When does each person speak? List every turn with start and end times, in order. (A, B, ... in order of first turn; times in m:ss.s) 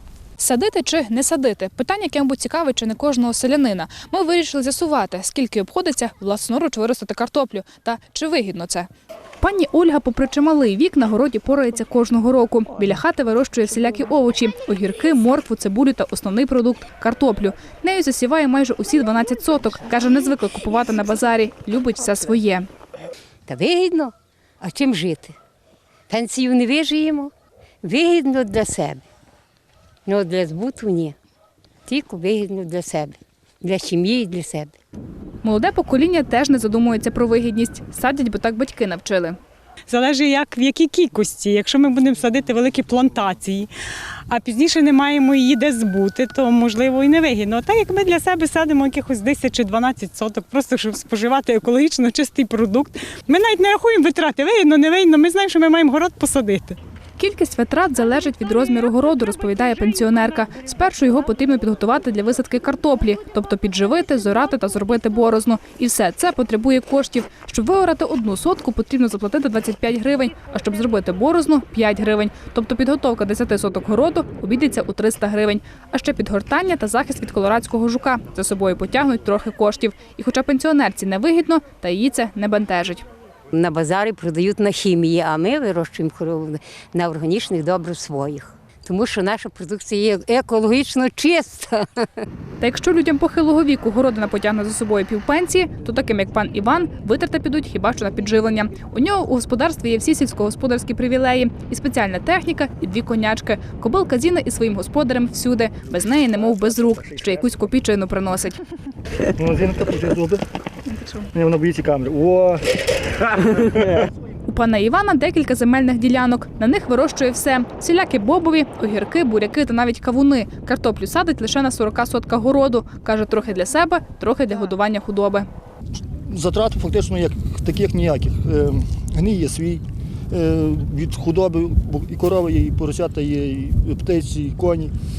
0:00.4-0:08.9 A
0:09.4-0:22.7 A
0:23.5-0:25.4 B
0:26.1-0:27.3 B
0:27.8-0:29.0 B
0:30.1-0:31.2 B
0:31.9-0:34.8 B
0:35.4-0:39.4 A
0:39.9-0:43.7 C
0:44.3-0:56.8 C
0:57.2-1:23.0 A
1:23.5-1:32.0 B
1:32.6-1:48.6 A
1:49.4-1:50.4 D
1:50.9-1:51.3 A
1:51.3-1:52.8 D
1:53.4-1:53.6 D
1:54.5-2:05.5 A
2:06.3-2:14.9 D